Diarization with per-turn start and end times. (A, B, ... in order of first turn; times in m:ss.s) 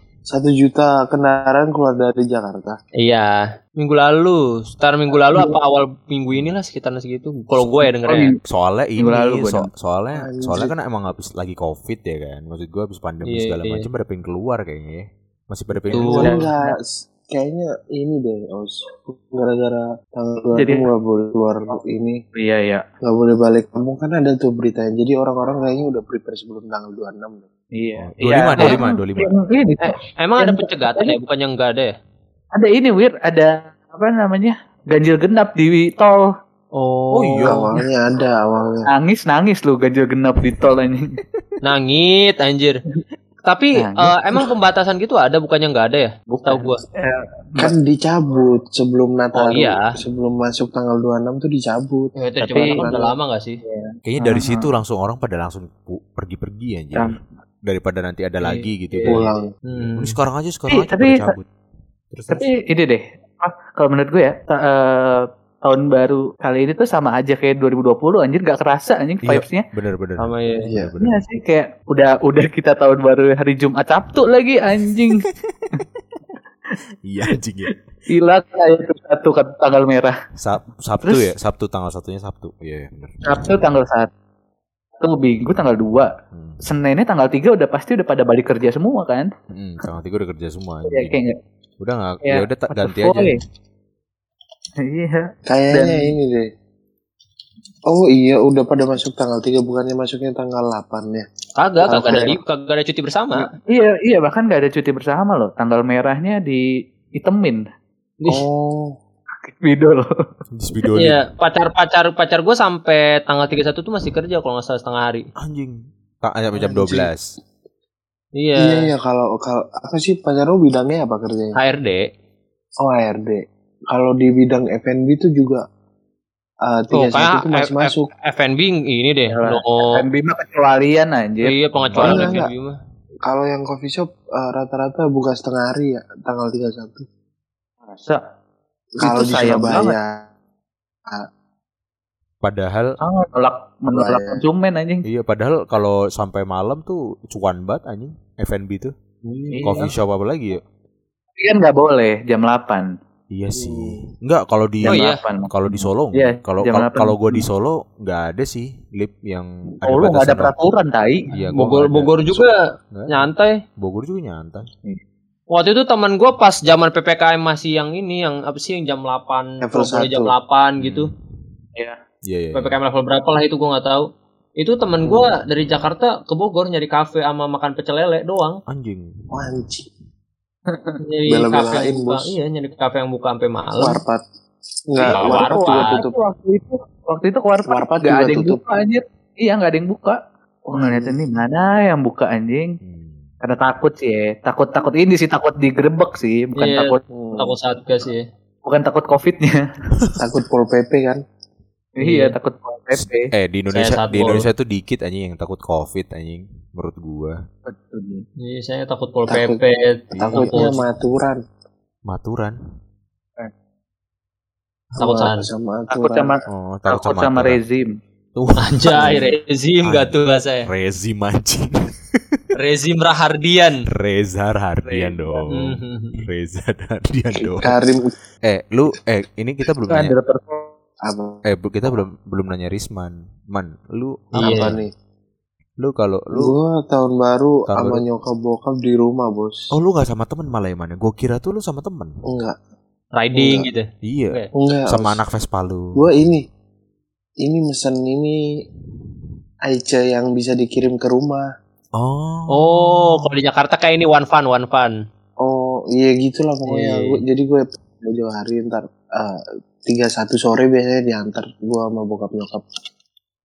0:00.3-0:02.8 A
0:03.0-0:08.3 B
0:08.1-0:08.4 C
0:08.4-0:16.3 D
0:09.0-0:09.7 C
0:10.2-0:10.7 A
0:13.2-0:13.8 B
0:15.9-0:16.4 B
0:16.0-0:22.2 A
0:16.1-0:16.8 C
0:20.6-0:20.8 C
0:22.4-0:22.8 C
0:23.0-0:27.5 A
0:27.8-0:31.2 C
0:28.0-0:29.3 D
0:29.8-0:32.0 B
0:32.6-0:36.2 C
0:36.8-0:37.6 B
0:37.1-0:37.6 D
0:37.5-0:38.9 A
0:38.9-0:41.0 C
0:41.6-0:42.8 B
0:43.5-0:46.8 B
0:43.8-0:44.4 C
0:46.3-0:47.7 C
0:47.6-0:52.1 A
0:49.4-0:49.8 B
0:52.2-0:53.6 B
0:52.4-0:52.9 C
0:52.7-0:53.1 A
0:53.7-0:54.7 C
0:54.0-0:57.1 D
0:57.6-1:01.5 D
0:58.4-1:00.2 B
0:59.1-0:59.5 A
1:00.7-1:01.3 C
1:02.1-1:02.5 D
1:02.3-1:09.6 C
1:09.2-1:11.2 D
1:10.2-1:10.7 B
1:10.7-1:10.9 A
1:11.0-1:15.3 C
1:17.0-1:17.7 D
1:18.1-1:20.1 C
1:20.4-1:23.6 D
1:23.3-1:24.1 C
1:25.0-1:26.1 C
1:26.3-1:26.6 D
1:26.6-1:29.3 C
1:29.5-1:31.2 D
1:30.9-1:31.4 C
1:31.8-1:33.4 D
1:32.2-1:33.4 C
1:34.8-1:36.1 C
1:35.5-1:36.5 A
1:37.9-1:41.3 A
1:41.6-1:43.5 B
1:41.9-1:42.4 A
1:43.6-1:46.6 C
1:47.2-1:47.6 C
1:48.3-1:48.9 A
1:49.5-1:50.0 C
1:50.5-1:51.2 D
1:50.8-1:55.3 B
1:55.4-1:57.2 D
1:56.6-1:57.1 A
1:58.4-1:58.9 B
1:58.6-2:01.6 A
2:01.6-2:02.0 B
2:02.8-2:05.6 A
2:06.7-2:08.0 A
2:06.9-2:09.8 B
2:09.3-2:11.5 C
2:11.4-2:12.8 B
2:11.8-2:12.3 D
2:12.0-2:12.5 A
2:13.3-2:17.0 A
2:17.9-2:18.2 C
2:19.0-2:20.3 A
2:19.0-2:20.0 C
2:22.4-2:23.0 D
2:23.0-2:25.0 C
2:23.9-2:24.4 A
2:25.0-2:28.9 D
2:29.2-2:29.9 B
2:29.5-2:29.9 C
2:29.6-2:30.6 D
2:31.4-2:32.9 C
2:33.3-2:40.5 D
2:33.6-2:34.0 A
2:34.8-2:37.4 C
2:34.9-2:35.2 B
2:39.8-2:41.3 C
2:41.3-2:43.3 D
2:41.6-2:43.5 B
2:43.8-2:44.7 D
2:45.5-2:51.1 B
2:49.6-2:50.3 A
2:50.8-2:51.1 D
2:52.2-2:52.8 D
2:52.5-2:54.0 B
2:54.6-2:58.6 B
2:58.7-2:59.1 D
2:59.3-2:59.9 A
3:00.7-3:01.0 C
3:01.0-3:04.0 B
3:01.3-3:02.4 A
3:03.8-3:04.2 A
3:04.9-3:06.2 A
3:05.0-3:06.0 B
3:05.2-3:10.2 C
3:07.7-3:08.7 A
3:10.7-3:12.8 C
3:10.7-3:11.2 A
3:12.8-3:13.3 D
3:13.4-3:17.0 C
3:16.6-3:18.2 B
3:17.1-3:17.6 A
3:18.7-3:19.5 C
3:20.2-3:21.2 A
3:22.0-3:23.3 C
3:22.0-3:22.3 B
3:23.0-3:27.4 D
3:23.7-3:24.4 B
3:27.7-3:28.2 C
3:28.4-3:30.8 B
3:29.3-3:29.6 A
3:30.1-3:31.4 A
3:30.2-3:30.6 D
3:32.1-3:32.6 D
3:35.0-3:36.3 A
3:35.0-3:35.4 B
3:35.9-3:37.9 C
3:36.5-3:37.6 D
3:38.4-3:39.2 D
3:38.6-3:40.7 B
3:39.8-3:42.5 D
3:42.6-3:43.8 B
3:43.9-3:47.8 D
3:44.8-3:45.4 C
3:45.5-3:46.2 B
3:47.6-3:48.1 A
3:48.5-3:50.1 D
3:49.9-3:50.7 C
3:51.1-3:51.9 A
3:51.5-3:54.8 D
3:54.4-3:54.7 B
3:54.4-3:54.9 A
3:55.8-3:56.5 D
3:56.3-3:59.7 A
3:57.7-3:58.0 D
3:59.7-4:02.2 D
4:02.3-4:02.6 A
4:03.2-4:04.5 B
4:03.3-4:03.7 A
4:04.0-4:04.4 D
4:04.6-4:05.2 A
4:04.9-4:06.0 D
4:06.0-4:06.4 A
4:07.4-4:08.4 A
4:09.7-4:11.5 A
4:12.0-4:12.9 D
4:12.5-4:14.9 B
4:15.4-4:22.6 A
4:16.7-4:17.2 B